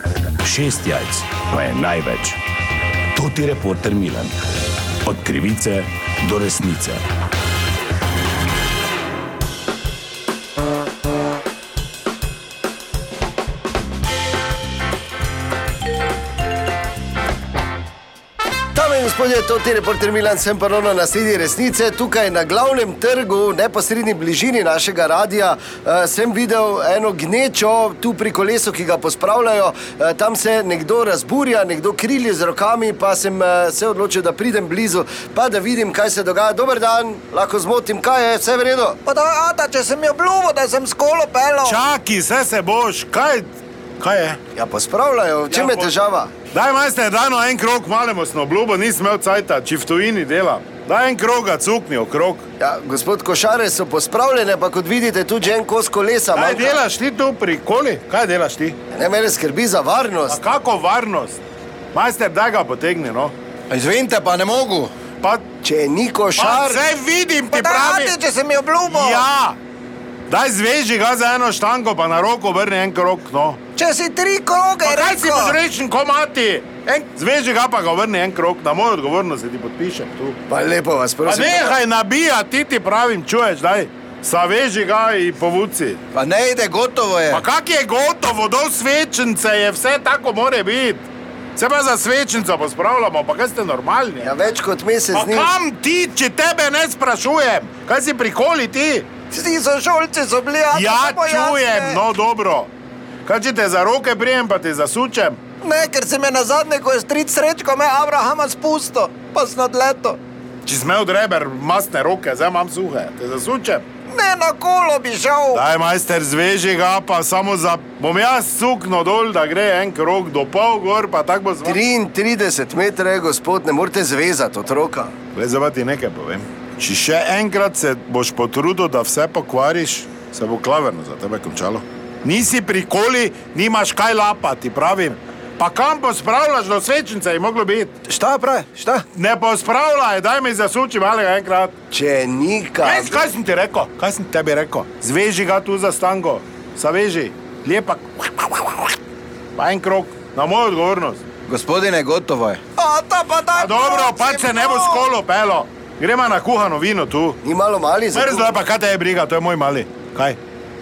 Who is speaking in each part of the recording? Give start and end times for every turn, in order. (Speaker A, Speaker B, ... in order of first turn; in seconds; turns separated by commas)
Speaker A: 0.4-2.4, Speaker A: 3.1-4.4, Speaker A: 5.0-7.0, Speaker B: 18.7-39.0, Speaker C: 39.0-41.8, Speaker D: 41.6-44.4, Speaker B: 44.5-46.3, Speaker D: 45.5-45.9, Speaker D: 46.5-52.4, Speaker B: 52.6-56.8, Speaker D: 56.3-58.8, Speaker B: 58.9-60.4, Speaker D: 60.3-61.4, Speaker D: 61.9-63.3, Speaker E: 63.7-64.9, Speaker B: 65.6-66.8, Speaker D: 66.4-68.2, Speaker C: 67.5-69.2, Speaker D: 68.8-69.6, Speaker D: 70.3-73.6, Speaker C: 73.8-75.6, Speaker D: 74.8-80.4, Speaker B: 80.5-81.8, Speaker D: 81.2-86.0, Speaker E: 86.1-87.4, Speaker D: 87.3-94.3, Speaker B: 94.2-95.5, Speaker D: 95.1-99.1, Speaker C: 99.3-102.0, Speaker D: 100.7-102.7, Speaker D: 103.2-105.4, Speaker C: 105.6-110.2, Speaker D: 110.6-113.8, Speaker C: 114.1-115.6, Speaker D: 115.5-121.8, Speaker B: 121.6-125.1, Speaker D: 125.3-138.0, Speaker B: 138.1-139.0, Speaker D: 139.1-141.7, Speaker B: 141.9-143.2, Speaker D: 142.8-148.9, Speaker D: 149.6-151.2, Speaker E: 151.5-152.6, Speaker C: 152.8-155.1, Speaker D: 153.5-157.4, Speaker B: 157.4-158.6, Speaker D: 158.1-160.4